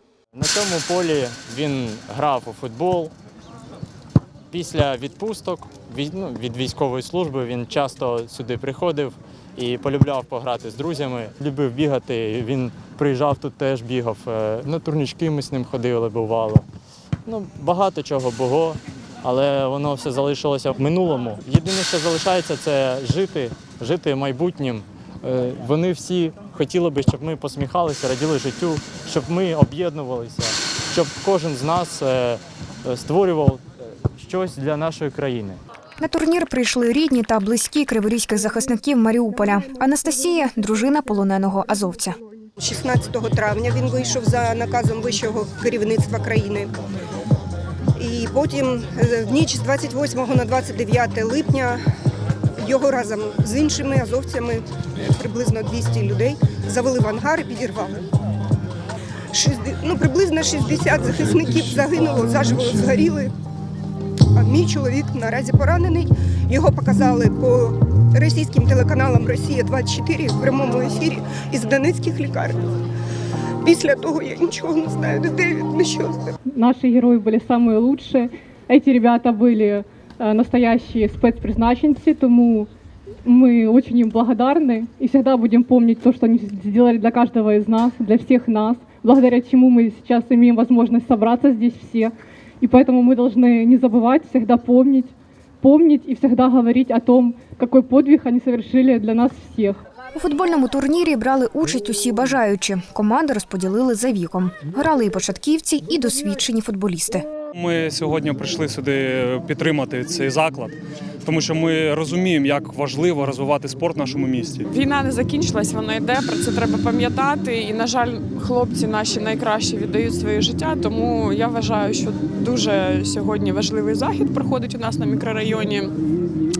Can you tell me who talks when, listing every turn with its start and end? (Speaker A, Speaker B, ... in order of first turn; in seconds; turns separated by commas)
Speaker A: 0.3-3.1, Speaker A: 4.5-16.6, Speaker A: 17.2-35.6, Speaker B: 36.0-42.2, Speaker C: 39.5-39.8, Speaker C: 42.6-46.7, Speaker C: 48.0-51.8, Speaker C: 52.6-58.0, Speaker C: 59.3-63.3, Speaker C: 64.3-72.6, Speaker C: 73.6-76.3, Speaker D: 76.5-82.7, Speaker D: 83.2-99.8, Speaker B: 100.1-107.2, Speaker E: 107.5-114.7, Speaker F: 114.7-126.0